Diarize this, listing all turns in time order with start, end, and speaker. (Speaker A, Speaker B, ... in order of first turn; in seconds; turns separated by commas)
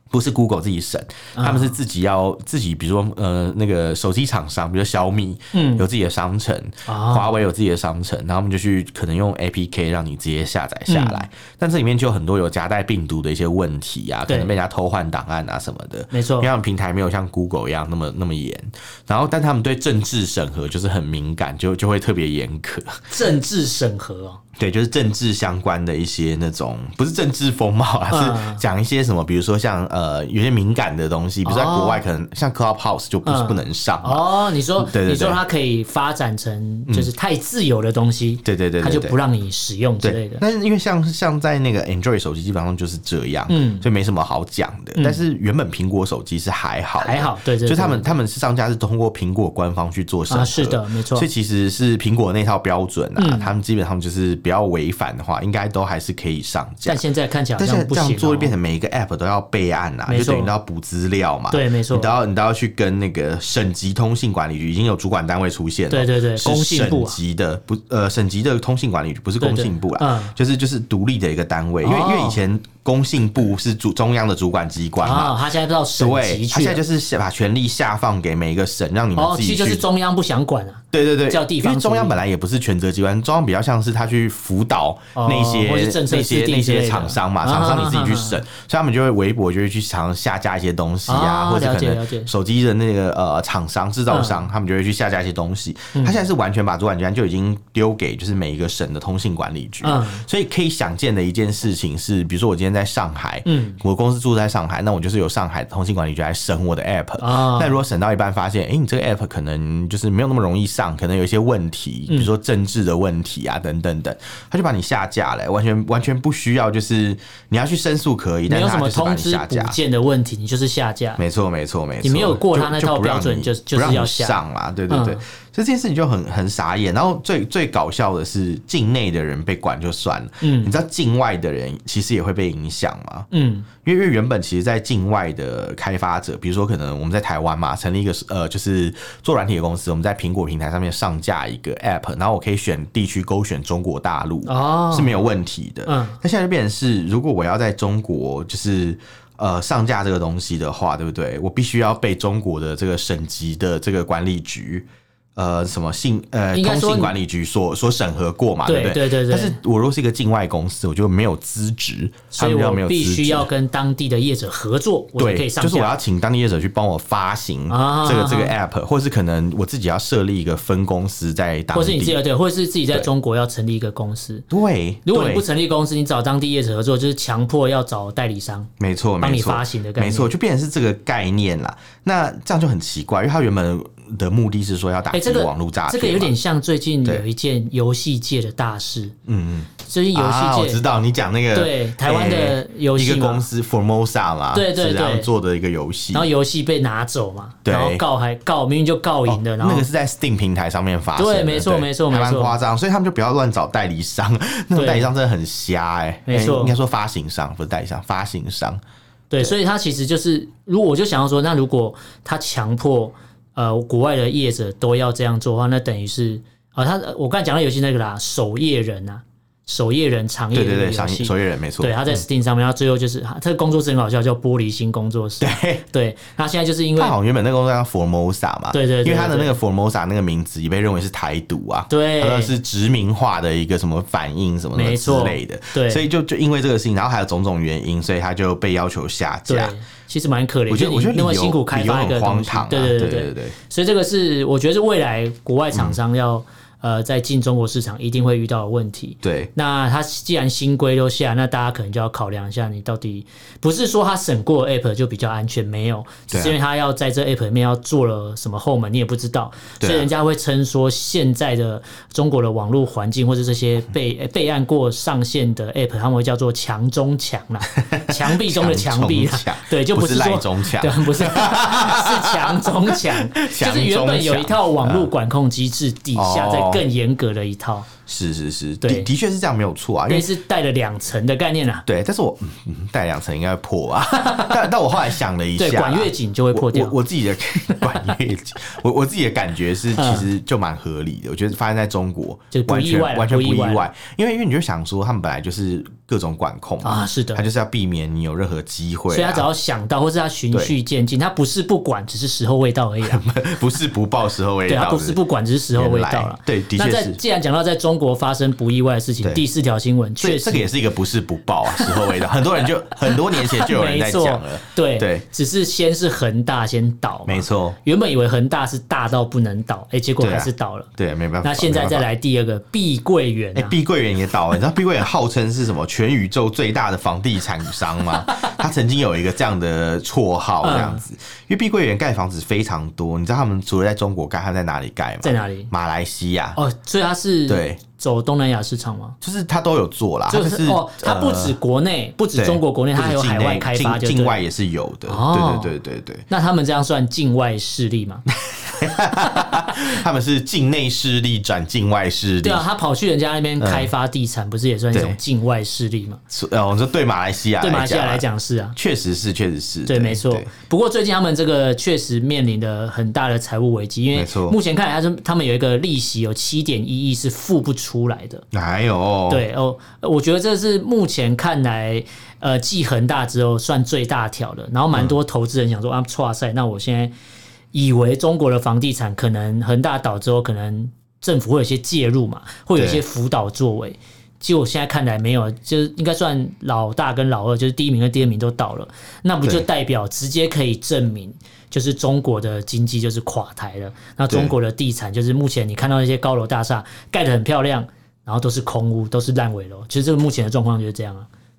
Speaker A: 0.1-23.0, Speaker B: 1.4-1.8, Speaker B: 5.5-5.9, Speaker B: 6.9-7.3, Speaker B: 10.9-11.2, Speaker B: 16.1-16.5, Speaker B: 23.1-24.4, Speaker A: 24.6-35.4, Speaker B: 28.1-28.6, Speaker B: 31.4-32.0, Speaker B: 33.2-40.4, Speaker A: 38.5-39.1, Speaker A: 40.0-57.0, Speaker B: 43.5-43.8, Speaker B: 47.0-48.1, Speaker B: 50.3-51.3, Speaker B: 53.2-53.5, Speaker B: 56.9-58.5, Speaker A: 57.6-75.4, Speaker B: 60.1-60.5, Speaker B: 61.5-62.1, Speaker B: 65.9-67.2, Speaker B: 69.4-70.3, Speaker B: 71.8-72.4, Speaker B: 75.0-76.8, Speaker A: 76.0-79.8, Speaker B: 79.2-82.2, Speaker A: 80.9-119.8, Speaker B: 85.2-88.4, Speaker B: 91.1-92.3, Speaker B: 94.1-94.5, Speaker B: 99.8-100.2, Speaker B: 103.5-103.8, Speaker B: 107.2-107.8, Speaker B: 118.5-121.2, Speaker A: 121.2-133.3, Speaker B: 122.0-125.2, Speaker B: 130.4-130.8, Speaker B: 133.3-133.7, Speaker A: 133.8-163.5, Speaker B: 144.5-145.3, Speaker B: 145.9-146.2, Speaker B: 156.5-157.2, Speaker B: 158.7-159.6, Speaker B: 162.3-165.9, Speaker A: 165.2-172.2, Speaker B: 167.7-168.6, Speaker B: 171.7-174.5, Speaker A: 174.5-175.5, Speaker B: 175.1-180.3, Speaker A: 178.8-186.3, Speaker B: 185.1-189.2, Speaker A: 189.3-196.3, Speaker B: 189.8-190.8, Speaker B: 191.5-193.4, Speaker B: 194.5-195.3, Speaker B: 196.1-199.9, Speaker A: 197.7-198.0, Speaker A: 199.3-208.8, Speaker B: 201.2-202.6, Speaker B: 204.8-205.1, Speaker B: 206.3-206.8, Speaker B: 209.3-227.2, Speaker A: 220.5-222.2, Speaker A: 225.4-225.8, Speaker A: 227.0-239.8, Speaker B: 228.7-229.6, Speaker B: 231.9-232.5, Speaker B: 234.8-236.1, Speaker B: 239.5-277.9, Speaker A: 240.7-243.6, Speaker A: 245.7-246.0, Speaker A: 249.2-249.5, Speaker A: 256.3-256.6, Speaker A: 259.8-260.1, Speaker A: 267.8-275.1, Speaker A: 276.1-276.9, Speaker A: 278.1-280.3, Speaker B: 278.8-279.1, Speaker B: 280.1-281.9, Speaker A: 281.9-299.5, Speaker B: 284.1-284.6, Speaker B: 285.6-286.9, Speaker B: 290.0-290.3, Speaker B: 292.5-293.9, Speaker B: 296.8-297.4, Speaker B: 299.1-303.2, Speaker A: 303.0-305.2, Speaker B: 304.7-310.7, Speaker A: 305.8-307.2, Speaker A: 310.2-315.2, Speaker B: 313.1-320.9, Speaker A: 317.3-317.8, Speaker A: 320.2-322.1, Speaker B: 321.4-323.8, Speaker A: 323.6-336.6, Speaker B: 328.3-328.5, Speaker B: 330.6-331.0, Speaker B: 335.2-335.7, Speaker B: 336.6-339.2, Speaker A: 337.5-337.8, Speaker A: 339.2-341.6, Speaker B: 340.3-344.4, Speaker A: 342.4-346.2, Speaker B: 345.1-345.7, Speaker B: 346.3-348.2, Speaker A: 348.4-352.7, Speaker B: 349.3-349.7, Speaker B: 352.4-356.2, Speaker A: 353.6-353.9, Speaker A: 354.9-355.2, Speaker A: 356.3-358.2, Speaker B: 357.6-358.8, Speaker A: 358.8-360.5, Speaker B: 359.9-368.4, Speaker A: 364.1-364.6, Speaker A: 368.5-369.5, Speaker B: 369.3-377.1, Speaker B: 377.7-401.3, Speaker A: 382.8-383.0